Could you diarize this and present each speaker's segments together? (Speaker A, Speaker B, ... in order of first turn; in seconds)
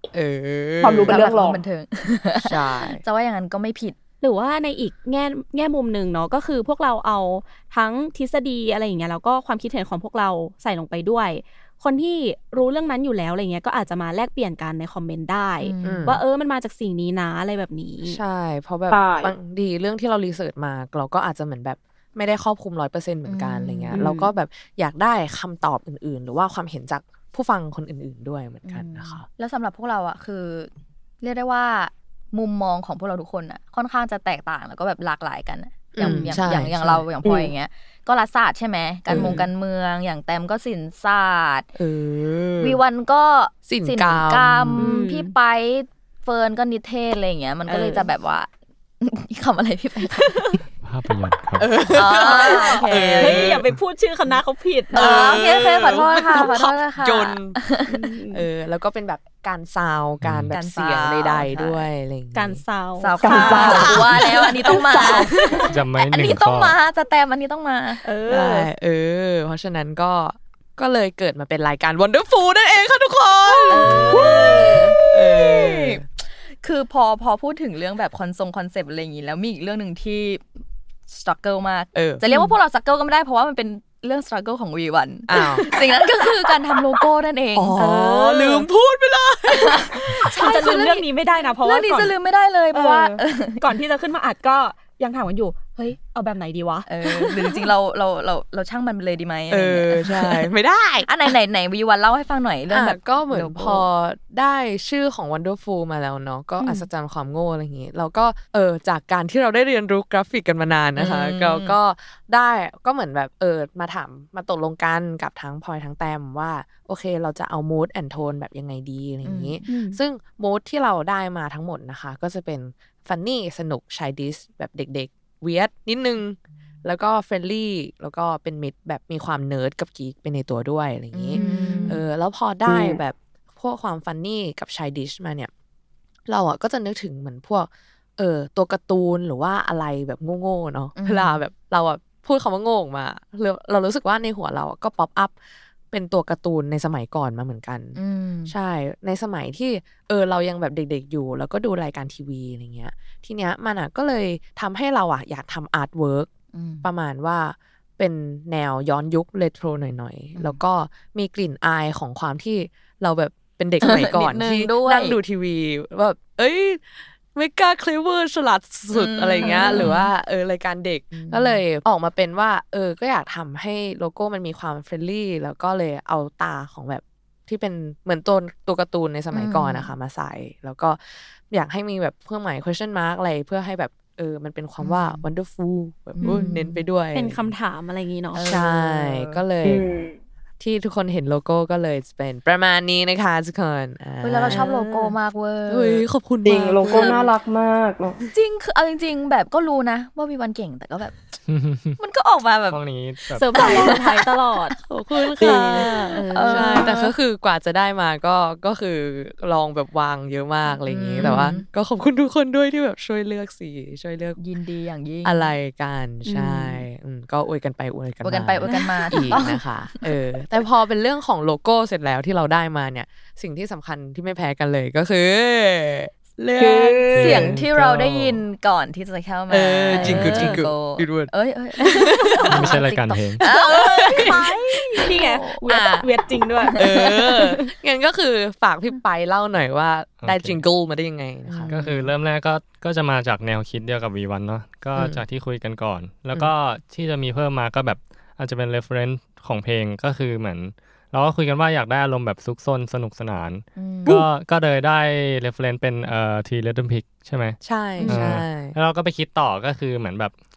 Speaker A: 0.1-1.2, 2.3-3.0, 15.8-16.2, 18.0-29.2, 35.9-37.0, 39.1-39.4, 41.7-42.8, 43.7-44.9, 51.6-53.7, 54.9-57.6, 58.3-62.6, 63.5-65.6, 68.3-76.0, 81.9-82.2, 85.3-86.0, 87.5-90.8, 99.5-101.3, 102.7-135.5, 136.3-145.3, 145.9-156.3, 156.8-187.5, 188.4-189.8, 190.6-194.6, 195.7-197.3, 204.8-214.4, 215.2-227.5, 229.5-231.9, 233.4-235.1, 235.7-236.1, 236.7-241.8, 244.9-245.2, 257.6-258.8
Speaker B: 0.8-1.6, 18.9-19.3, 37.2-37.5, 57.9-58.4, 63.2-65.7, 132.7-133.0, 189.6-190.1, 196.4-198.2, 205.4-205.9, 226.6-227.3
Speaker C: 1.0-4.0, 15.6-16.1, 23.2-24.0, 28.6-41.7, 42.6-48.5, 49.0-50.6, 51.9-53.5, 54.9-57.8, 60.5-61.9, 63.0-68.0, 73.7-80.4, 81.1-87.8, 89.5-91.1, 91.6-93.6, 96.9-100.5, 101.0-103.9, 111.0-111.8, 119.2-119.6, 131.1-132.0, 140.9-141.4, 147.9-148.5, 156.5-156.9, 160.3-160.6, 163.8-165.2, 168.9-170.1, 171.1-171.6, 179.3-179.9, 184.8-185.3, 186.2-186.8, 188.3-189.4, 194.2-196.1, 196.8-197.3, 198.3-201.3, 202.0-202.8, 203.5-204.2, 206.3-207.1, 210.7-211.6, 214.4-215.5, 218.2-220.2, 227.2-235.6, 236.7-237.3, 241.5-242.0, 253.7-254.1
Speaker D: 4.2-18.2, 23.9-24.3, 36.0-36.3, 39.1-39.5, 44.8-45.3, 47.7-48.1, 52.1-55.2, 62.3-64.0, 68.0-68.7, 73.7-74.9, 82.2-82.5, 87.8-88.7, 90.3-92.2, 92.7-97.7, 119.7-120.0, 131.3-131.8, 169.4-169.8, 186.2-186.5, 187.1-188.5, 194.5-195.2, 203.3-204.8, 205.4-206.9, 216.2-216.8, 218.6-219.4, 229.9-230.6, 232.2-232.8, 233.7-237.6, 258.0-258.2
Speaker E: 50.8-51.7, 60.2-60.5, 65.7-66.8, 201.5-202.0, 202.7-203.7, 227.1-228.4, 232.5-233.4, 240.2-240.6, 241.6-260.3